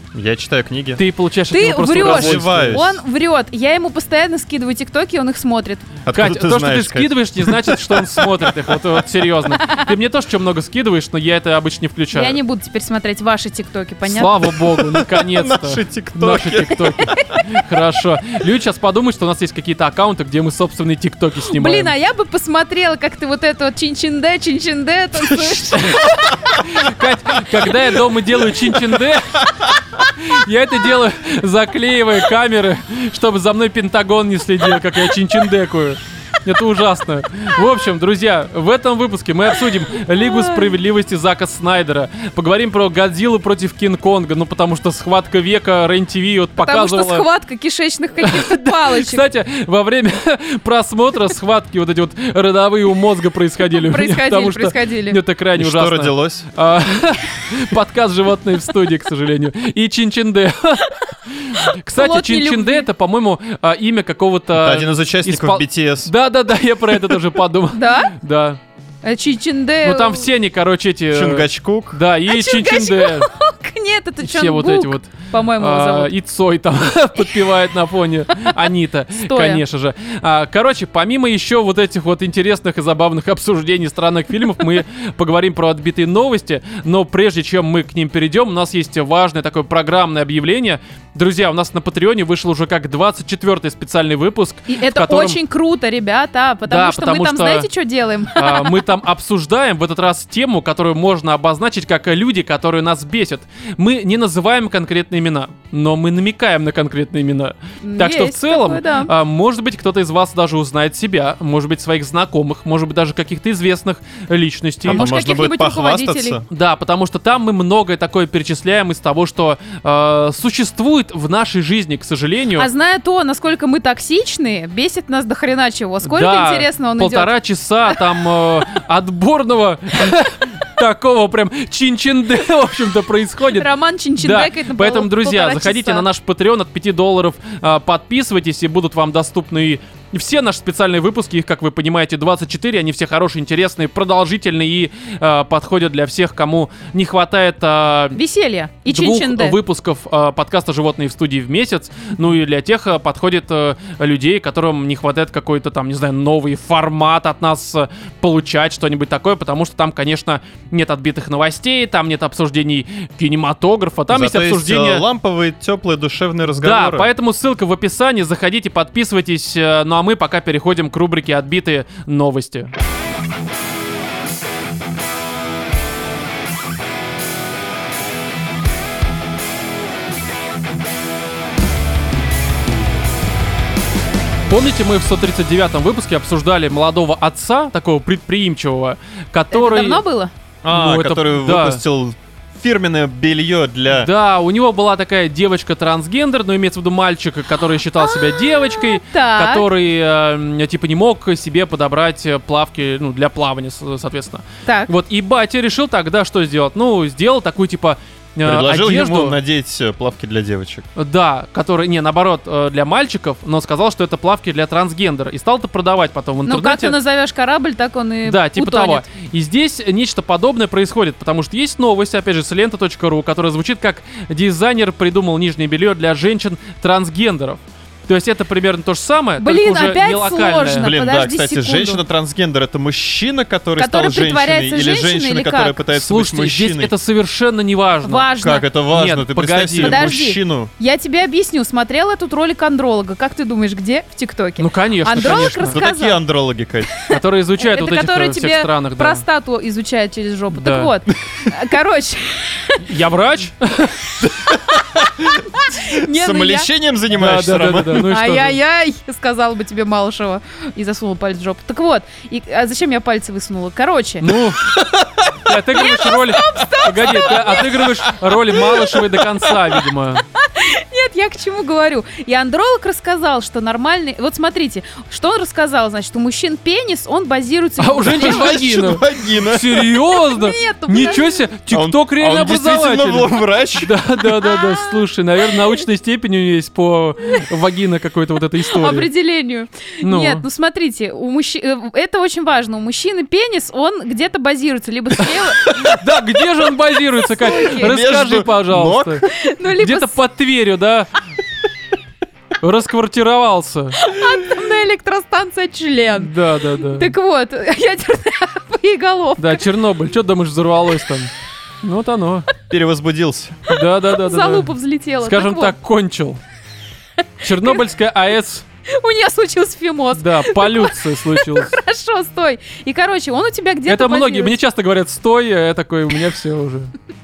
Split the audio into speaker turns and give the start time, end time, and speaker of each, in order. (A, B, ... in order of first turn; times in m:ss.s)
0:00.1-0:01.0 A
0:01.0-0:02.8 B
0:01.5-0:05.9 C
0:01.9-0:03.0 A
0:06.1-0:09.0 A
0:06.1-0:12.4 B
0:12.1-0:14.4 C
0:14.0-0:21.9 B
0:14.6-0:17.4 A
0:21.5-0:26.2 C
0:25.6-0:29.5 B
0:26.1-0:26.6 A
0:28.5-0:29.7 A
0:30.1-0:47.2 B
0:40.2-0:40.8 C
0:46.6-0:49.3 C
0:48.2-1:08.6 B
0:53.7-0:55.2 C
0:55.6-0:56.5 A
1:01.6-1:02.9 C
1:04.5-1:06.1 A
1:07.7-1:08.2 C
1:09.0-1:10.3 C
1:09.8-1:13.3 B
1:11.1-1:12.0 A
1:12.3-1:16.1 C
1:14.2-1:35.4 B
1:17.2-1:17.4 C
1:18.3-1:19.6 C
1:34.7-1:38.8 C
1:36.7-1:37.7 B
1:38.3-1:55.1 B
1:47.8-1:49.1 C
1:54.8-1:56.4 A
1:54.9-1:56.4 C
1:56.5-2:02.7 B
2:02.6-2:07.3 C
2:06.0-2:28.2 B
2:13.6-2:16.1 C
2:28.2-2:29.6 C
2:28.9-2:45.0 B
2:44.1-2:47.1 A
2:46.6-2:52.7 B
3:04.5-3:10.0 B
3:09.5-3:10.3 C
3:10.6-3:14.1 A
3:10.7-3:11.8 B
3:13.9-3:29.4 B
3:18.0-3:19.6 C
3:24.6-3:24.9 C
3:28.4-3:30.8 A
3:31.0-3:37.0 B
3:36.4-3:39.1 C
3:38.2-3:50.9 B
3:49.4-3:52.0 C
3:50.8-3:56.9 A
3:53.8-3:55.8 C
3:55.9-3:58.3 B
3:58.0-3:58.7 C
3:58.4-4:00.7 A
3:58.9-4:00.0 B
3:59.8-4:06.2 C
4:04.6-4:05.8 B
4:05.6-4:06.9 A
4:06.9-4:12.9 C
4:07.0-4:09.2 B
4:10.5-4:10.9 B
4:12.8-4:14.2 B
4:14.2-4:18.0 A
4:15.6-4:16.7 C
4:17.1-4:18.6 B
4:17.9-4:24.3 C
4:24.2-4:24.8 B
4:24.8-4:25.3 A
4:25.4-4:30.2 B
4:25.7-4:28.3 C
4:30.4-4:38.6 C
4:37.8-4:49.1 B
4:38.1-4:40.0 A
4:40.2-4:41.4 C
4:41.7-4:44.0 A
4:44.4-4:44.9 C
4:48.6-4:56.0 C
4:50.0-4:50.4 B
4:55.5-5:01.1 B
4:57.4-4:58.0 C
4:57.7-4:59.3 A
4:59.2-5:00.2 C
5:02.6-5:04.0 B
5:04.0-5:06.3 C
5:06.2-5:07.1 B
5:06.9-5:09.6 C
5:09.4-5:11.3 B
5:11.8-5:12.5 B
5:12.7-5:13.7 A
5:13.7-5:16.4 B
5:13.8-5:15.8 C
5:17.4-5:18.6 B
5:18.9-5:24.5 C
5:20.2-5:21.7 B
5:23.9-5:26.9 B